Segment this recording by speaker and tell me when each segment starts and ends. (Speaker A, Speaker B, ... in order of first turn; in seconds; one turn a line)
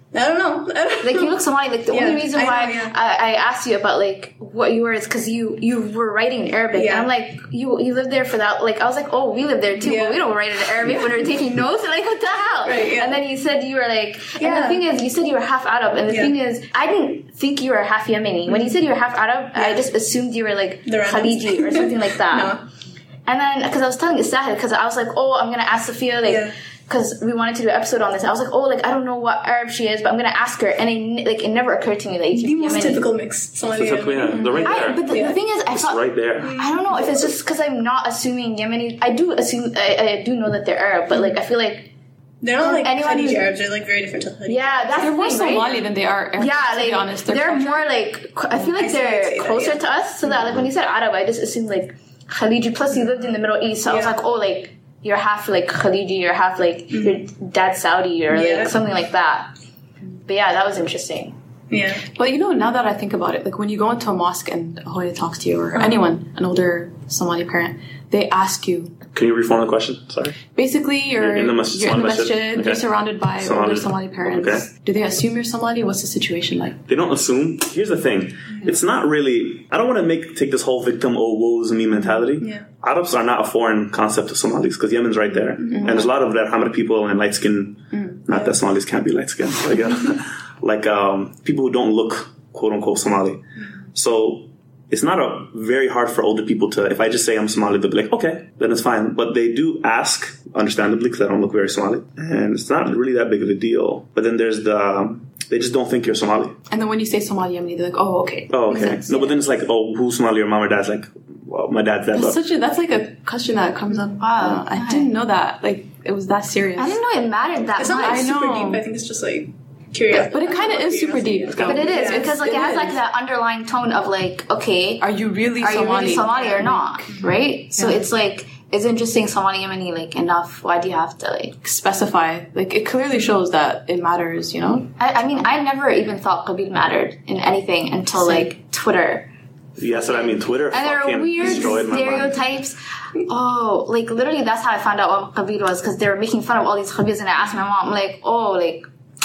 Speaker A: 0.1-1.4
Speaker B: 1.0-22.6
Speaker A: 1.9-2.9
Speaker A: 6.7-7.1
Speaker A: 9.8-10.2
Speaker A: 12.6-13.2
Speaker A: 14.4-14.8
Speaker A: 16.1-16.3
Speaker A: 19.5-19.8
Speaker A: 20.9-22.6
Speaker B: 23.2-33.1
Speaker A: 26.2-26.5
Speaker A: 32.3-35.4
Speaker C: 33.7-35.0
Speaker D: 34.3-34.6
Speaker B: 34.6-41.9
Speaker C: 35.7-36.6
Speaker A: 36.4-37.2
Speaker A: 42.4-45.1
Speaker B: 42.6-43.4
Speaker B: 44.5-45.8
Speaker D: 45.0-47.8
Speaker B: 46.4-59.5
Speaker A: 48.7-49.8
Speaker A: 53.9-54.1
Speaker A: 56.9-57.2
Speaker A: 58.3-58.7
Speaker B: 60.2-61.3
Speaker A: 61.7-62.0
Speaker D: 62.1-68.9
Speaker A: 65.8-66.0
Speaker C: 69.1-70.4
Speaker D: 70.5-76.8
Speaker C: 71.2-72.9
Speaker C: 73.4-74.7
Speaker C: 76.9-93.4
Speaker A: 82.4-82.7
Speaker A: 85.6-86.0
Speaker D: 85.7-86.1
Speaker D: 87.9-88.2
Speaker C: 93.9-106.5
Speaker D: 106.7-109.3
Speaker C: 108.5-112.4
Speaker D: 112.1-117.0
Speaker B: 114.2-115.1
Speaker B: 116.8-118.3
Speaker A: 117.8-122.3
Speaker D: 117.8-118.8
Speaker D: 120.2-123.0
Speaker B: 121.6-131.6
Speaker D: 125.0-127.0
Speaker D: 127.7-128.0
Speaker D: 131.6-134.9
Speaker B: 135.0-139.3
Speaker D: 138.2-138.5
Speaker C: 139.8-142.4
Speaker B: 139.9-148.9